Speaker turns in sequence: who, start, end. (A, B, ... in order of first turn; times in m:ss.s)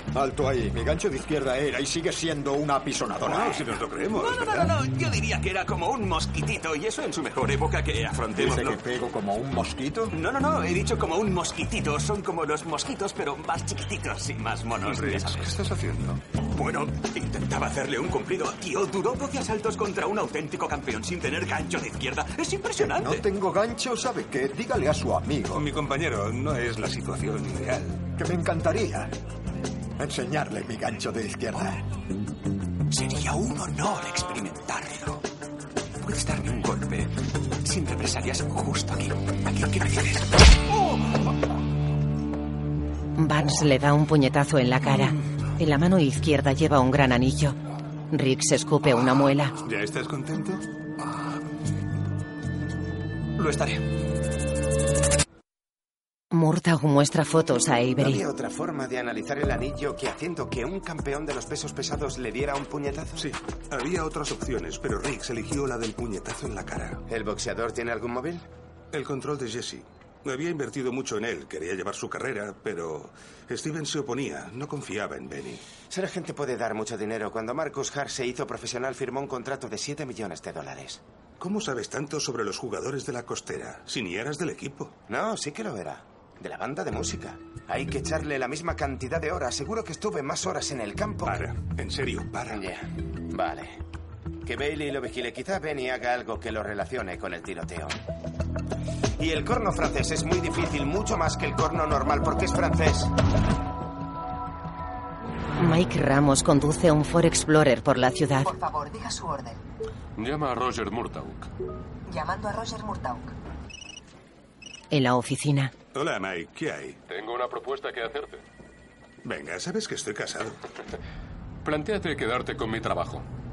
0:00.1-0:03.6 A
0:03.2-0:04.8 B
0:04.1-0:08.8 C
0:08.3-0:10.2 A
0:10.1-0:15.6 C
0:14.8-0:16.2 B
0:16.5-0:23.2 C
0:22.8-0:25.7 A
0:25.6-0:28.0 B
0:28.2-0:29.1 A
0:30.0-0:31.8 A
0:32.9-0:35.2 C
0:36.0-0:40.3 C
0:43.2-0:47.6 D
0:48.1-0:49.6 D
0:49.6-0:50.6 B
0:53.4-0:53.8 C
0:56.3-0:58.2 D
0:58.0-1:03.3 E
1:03.2-1:07.0 B
1:07.1-1:08.4 E
1:08.9-1:15.6 B
1:15.9-1:21.0 E
1:21.4-1:25.0 B
1:25.1-1:31.5 E
1:31.2-1:32.6 B
1:32.5-1:33.8 E
1:34.4-1:38.0 E
1:39.2-1:43.1 E
1:45.6-1:48.5 D
1:48.4-1:49.6 F
1:50.2-1:51.5 G
1:52.1-1:53.3 F
1:54.9-1:55.7 D
1:55.9-1:57.0 B
1:57.1-1:58.4 G
1:59.2-2:00.6 B
2:01.6-2:03.3 G